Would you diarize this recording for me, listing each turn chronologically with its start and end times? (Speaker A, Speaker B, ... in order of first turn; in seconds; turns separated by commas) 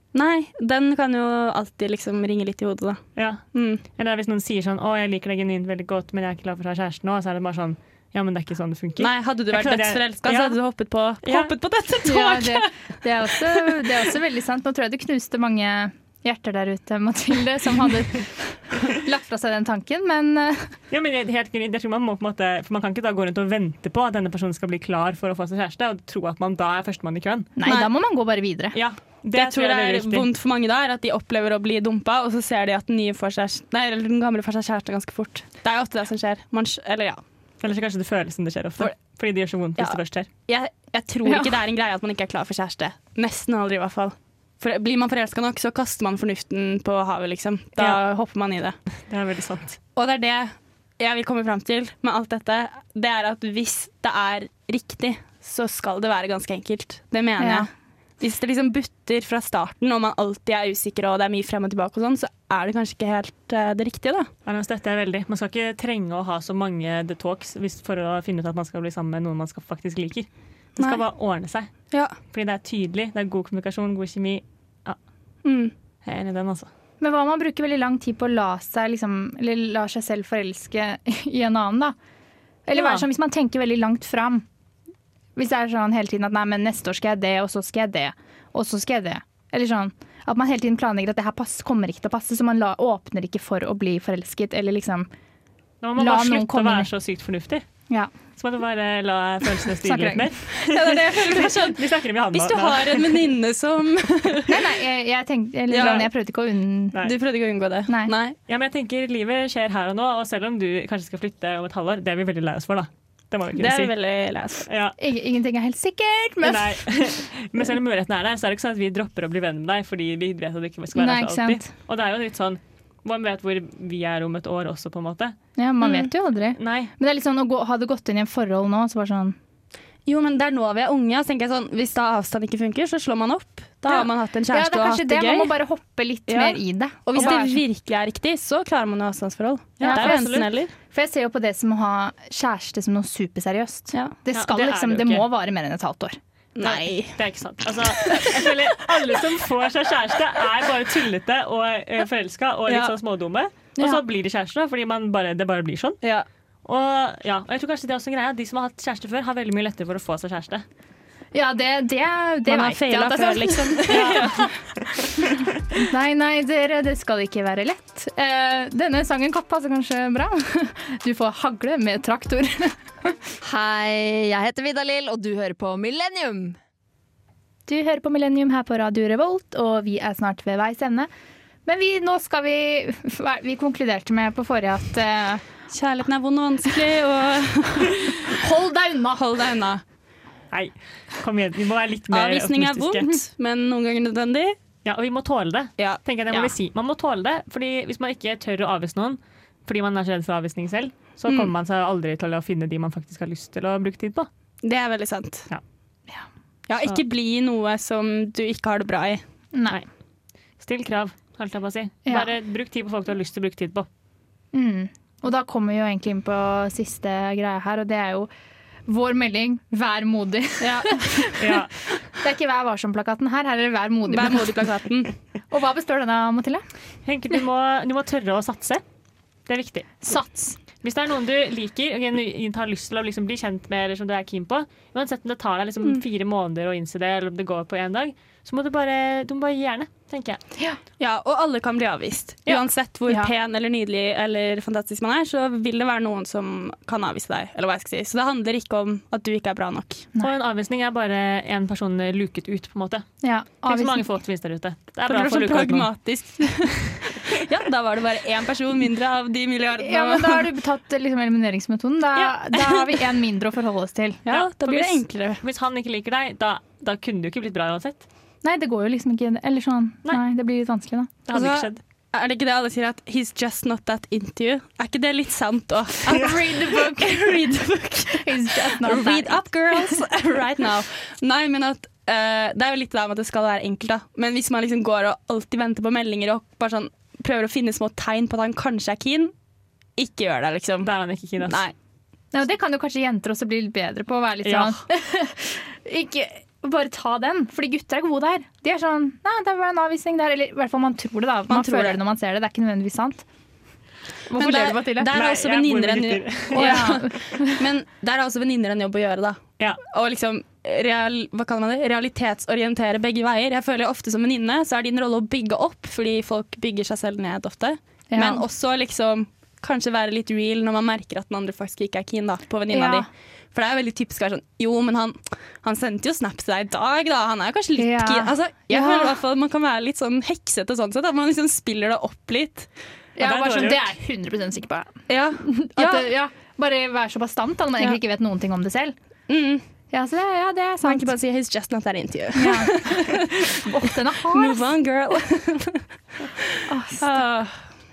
Speaker A: 0.1-3.0, Speaker B: 3.2-10.6, Speaker A: 3.5-3.8, Speaker A: 9.0-12.7, Speaker B: 11.2-11.6, Speaker C: 12.1-20.8, Speaker B: 20.9-27.5, Speaker C: 27.6-28.8, Speaker A: 27.6-27.9, Speaker B: 28.7-30.3, Speaker A: 29.3-37.2, Speaker B: 37.6-40.3, Speaker A: 39.8-48.8, Speaker C: 41.2-41.5, Speaker B: 49.1-49.8, Speaker A: 50.0-57.7, Speaker C: 57.4-57.7, Speaker A: 58.2-64.3, Speaker B: 64.5-71.7, Speaker B: 72.3-75.0, Speaker A: 75.5-75.7, Speaker B: 76.0-76.7, Speaker C: 77.0-82.0, Speaker C: 82.7-84.5, Speaker B: 82.7-83.0, Speaker C: 85.4-95.1, Speaker B: 95.8-97.7, Speaker C: 96.0-96.9, Speaker B: 98.4-103.3, Speaker C: 99.8-100.3, Speaker A: 100.6-101.8, Speaker A: 102.3-104.5, Speaker C: 104.5-107.0, Speaker A: 105.7-106.1, Speaker A: 107.0-108.4, Speaker C: 107.9-108.1, Speaker B: 108.5-113.9, Speaker A: 113.6-114.7, Speaker B: 114.7-115.0, Speaker C: 115.0-116.9, Speaker B: 116.4-125.3, Speaker C: 121.0-121.7, Speaker C: 125.6-129.4, Speaker A: 125.8-126.1, Speaker B: 126.6-126.9, Speaker A: 130.1-135.6, Speaker C: 133.9-137.6, Speaker A: 136.3-140.7, Speaker B: 139.8-140.5, Speaker C: 139.8-140.2, Speaker C: 140.9-146.2, Speaker B: 144.3-145.2, Speaker A: 146.6-147.2, Speaker B: 146.7-156.0, Speaker A: 152.7-152.9, Speaker C: 153.8-154.0, Speaker B: 156.7-160.6, Speaker C: 161.3-164.4, Speaker A: 162.5-164.5, Speaker B: 163.9-164.4, Speaker C: 165.8-173.1, Speaker D: 173.4-176.6, Speaker C: 177.7-181.1, Speaker C: 181.7-185.4, Speaker A: 185.7-188.3, Speaker C: 188.4-189.2, Speaker A: 189.2-189.8, Speaker B: 190.5-193.2, Speaker A: 192.1-194.6, Speaker B: 194.8-204.3, Speaker A: 204.6-205.5, Speaker A: 206.7-209.2, Speaker B: 206.8-207.0, Speaker C: 209.5-209.8, Speaker B: 210.6-213.9, Speaker C: 212.1-212.3, Speaker C: 214.5-218.3, Speaker C: 218.9-221.5, Speaker A: 220.6-221.2, Speaker B: 221.4-221.7, Speaker C: 222.2-224.7, Speaker A: 224.1-225.2, Speaker C: 225.5-226.6, Speaker B: 227.1-228.8, Speaker B: 229.5-230.1, Speaker C: 230.0-230.6, Speaker B: 230.8-240.4, Speaker A: 241.0-250.1, Speaker C: 243.1-243.3, Speaker B: 250.2-253.1, Speaker C: 253.2-254.1, Speaker B: 253.6-255.9, Speaker A: 255.1-260.4, Speaker C: 259.8-264.2, Speaker A: 262.1-263.0, Speaker A: 264.2-265.4, Speaker B: 264.3-268.1, Speaker C: 268.4-271.1, Speaker B: 271.3-271.8, Speaker A: 271.3-289.3, Speaker C: 276.1-280.0, Speaker A: 290.0-290.9, Speaker B: 290.8-291.6, Speaker A: 291.4-291.8, Speaker C: 292.3-303.2, Speaker B: 294.4-294.8, Speaker A: 301.5-302.0, Speaker C: 304.3-305.1, Speaker A: 304.4-332.7, Speaker B: 305.1-306.9, Speaker C: 306.5-307.6, Speaker C: 318.1-318.4, Speaker C: 322.7-323.1, Speaker C: 327.8-329.1, Speaker C: 333.2-338.9, Speaker B: 333.2-333.8, Speaker A: 335.1-336.1, Speaker A: 339.3-339.6, Speaker C: 339.9-341.1, Speaker A: 340.8-343.6, Speaker C: 342.4-344.7, Speaker A: 344.3-345.9, Speaker C: 346.7-347.2, Speaker A: 347.0-347.6